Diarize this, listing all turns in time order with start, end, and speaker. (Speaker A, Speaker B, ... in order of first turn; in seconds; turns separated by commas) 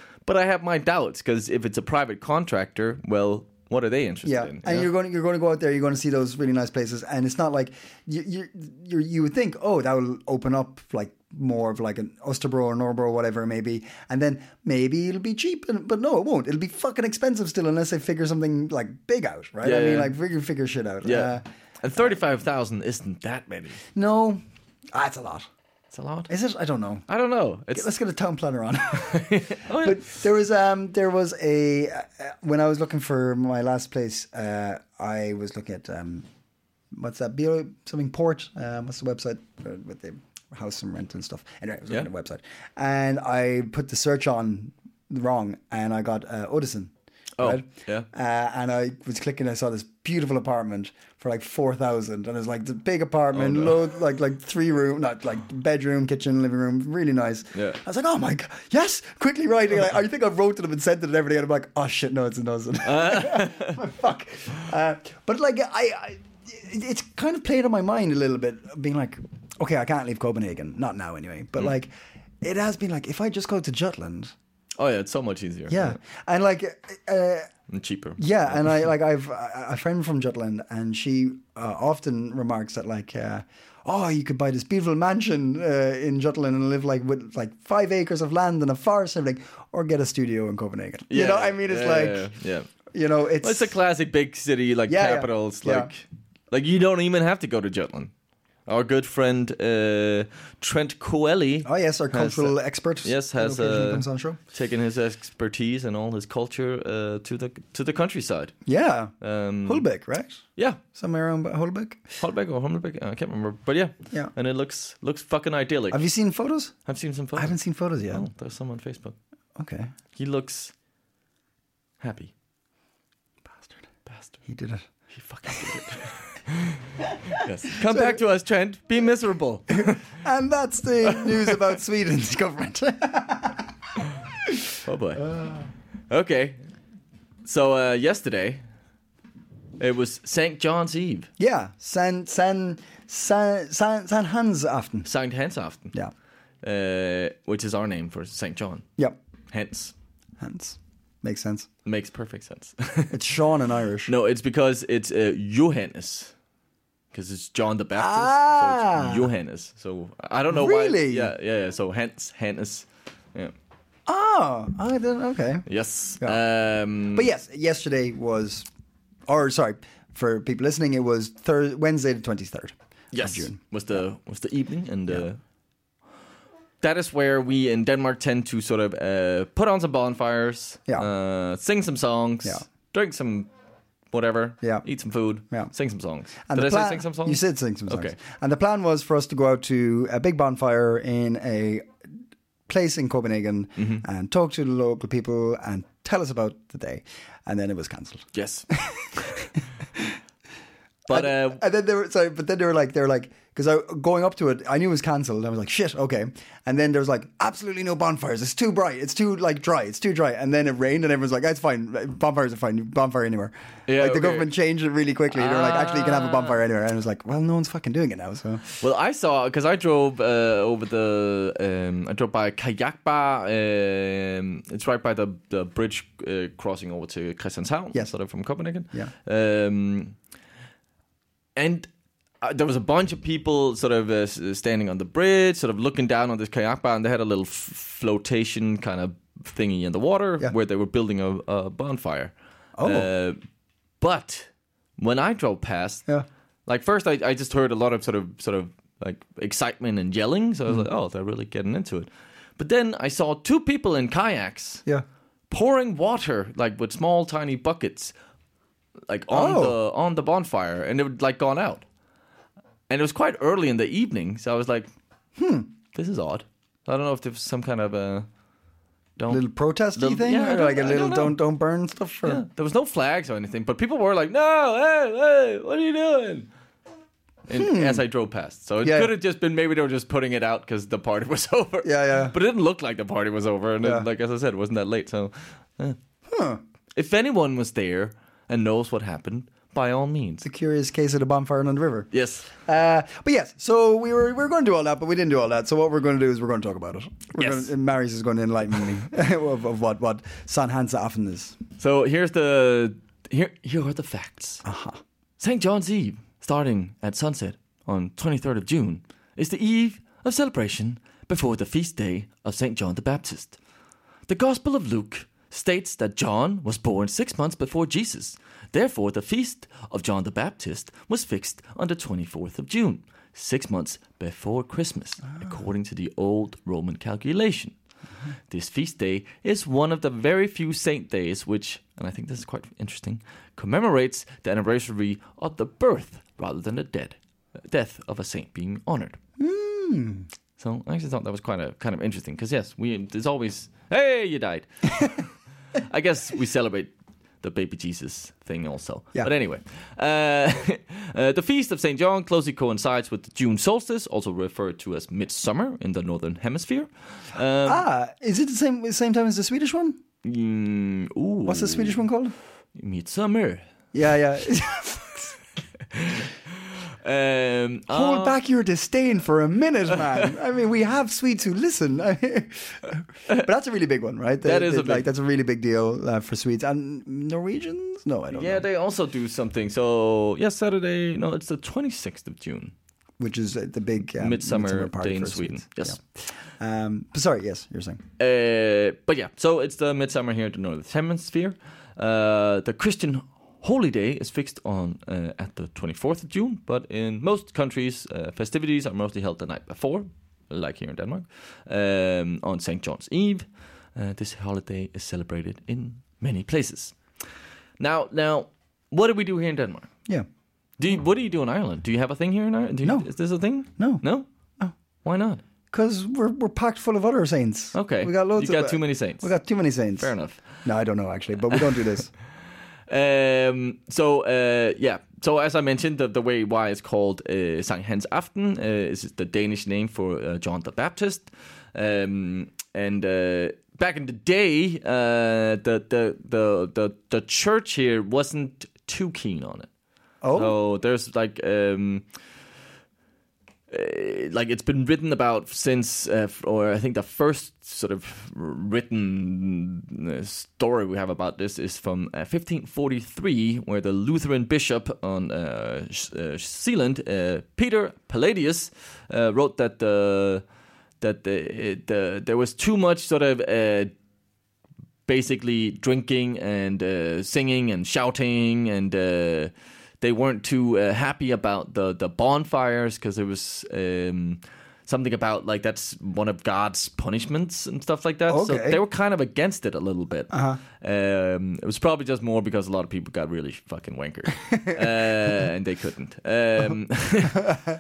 Speaker A: 0.3-4.9, Speaker B: 4.2-21.4, Speaker A: 19.6-20.1, Speaker A: 21.0-23.8, Speaker B: 23.9-24.4, Speaker B: 24.9-25.5, Speaker A: 25.9-26.3, Speaker B: 26.3-27.1, Speaker A: 27.1-27.9, Speaker B: 27.7-36.3, Speaker A: 28.9-30.0, Speaker B: 36.9-74.3, Speaker A: 47.4-48.1, Speaker A: 53.3-53.7, Speaker A: 57.5-57.8, Speaker A: 62.9-63.8, Speaker A: 74.8-76.0, Speaker B: 75.7-77.5, Speaker A: 77.7-78.8, Speaker B: 78.2-92.2, Speaker A: 91.1-92.7, Speaker B: 92.9-93.8, Speaker A: 93.4-98.1, Speaker B: 94.9-95.9, Speaker A: 98.7-108.5, Speaker B: 101.6-104.4, Speaker B: 108.7-109.1, Speaker A: 109.2-109.9, Speaker B: 109.7-112.1, Speaker A: 112.2-116.0, Speaker B: 115.9-116.7, Speaker A: 116.9-119.2, Speaker B: 117.4-118.3, Speaker B: 119.6-119.9, Speaker A: 120.2-120.7, Speaker A: 122.0-122.3, Speaker B: 124.5-124.9, Speaker A: 125.1-130.1, Speaker B: 125.5-125.8, Speaker B: 127.3-128.2, Speaker B: 129.7-133.7, Speaker A: 131.2-131.6, Speaker A: 134.8-135.3, Speaker B: 135.3-135.6, Speaker A: 136.1-136.6, Speaker A: 137.4-138.6, Speaker A: 139.8-141.3, Speaker B: 141.4-145.1, Speaker A: 145.1-145.9, Speaker A: 146.6-148.8, Speaker A: 149.5-149.9, Speaker B: 150.4-151.7, Speaker A: 151.8-153.2, Speaker B: 153.1-154.1, Speaker A: 154.1-156.3, Speaker A: 157.1-163.5, Speaker B: 158.0-159.3, Speaker B: 160.5-161.3, Speaker B: 164.1-165.7, Speaker A: 165.7-167.3, Speaker B: 167.1-168.7, Speaker B: 169.3-173.6, Speaker A: 173.1-175.4, Speaker A: 176.8-183.5, Speaker A: 184.1-188.2, Speaker B: 186.5-191.9, Speaker B: 192.7-199.3, Speaker A: 193.8-194.0, Speaker A: 198.3-199.3, Speaker A: 201.1-201.6, Speaker B: 201.1-218.6, Speaker A: 213.9-214.5, Speaker A: 215.3-216.6, Speaker A: 218.8-230.2, Speaker A: 231.6-231.9, Speaker A: 232.4-243.4, Speaker B: 242.8-243.1, Speaker A: 244.0-246.1, Speaker A: 246.7-254.8, Speaker A: 255.5-258.1, Speaker A: 259.1-261.8, Speaker B: 259.3-259.8, Speaker A: 262.9-264.9, Speaker B: 265.4-265.7, Speaker A: 265.9-268.3, Speaker A: 269.2-269.4, Speaker B: 269.3-272.4, Speaker A: 269.9-271.4, Speaker A: 272.2-276.5, Speaker A: 277.5-286.0, Speaker B: 277.5-278.1, Speaker B: 278.8-279.1, Speaker B: 281.8-282.4, Speaker B: 283.8-284.1, Speaker B: 286.3-286.6, Speaker A: 286.9-290.4, Speaker B: 290.4-301.6, Speaker A: 292.1-292.5, Speaker A: 297.4-297.7, Speaker A: 301.8-304.6, Speaker B: 304.6-305.0, Speaker A: 305.4-313.6, Speaker A: 314.3-327.8, Speaker A: 328.5-337.2, Speaker A: 337.7-339.2, Speaker B: 339.4-340.3, Speaker A: 340.6-346.9, Speaker A: 347.4-357.8, Speaker B: 357.6-360.0, Speaker A: 360.2-362.0, Speaker B: 361.4-362.4, Speaker A: 362.8-363.7, Speaker B: 363.9-365.4, Speaker A: 365.9-368.4, Speaker B: 367.9-378.6, Speaker A: 374.4-375.1, Speaker A: 378.3-382.7, Speaker B: 383.2-386.0, Speaker A: 384.1-386.0, Speaker B: 386.6-388.0, Speaker A: 388.2-407.0, Speaker A: 407.8-409.9, Speaker A: 410.8-414.3, Speaker B: 413.8-414.0, Speaker A: 415.0-415.4, Speaker B: 415.7-420.1, Speaker A: 417.7-419.3, Speaker A: 420.0-420.4, Speaker B: 420.6-422.1, Speaker A: 422.9-439.7, Speaker B: 440.2-440.6, Speaker A: 440.3-442.1, Speaker A: 443.7-460.4, Speaker A: 461.0-463.9, Speaker A: 465.1-487.6, Speaker B: 478.3-478.8, Speaker B: 480.3-480.6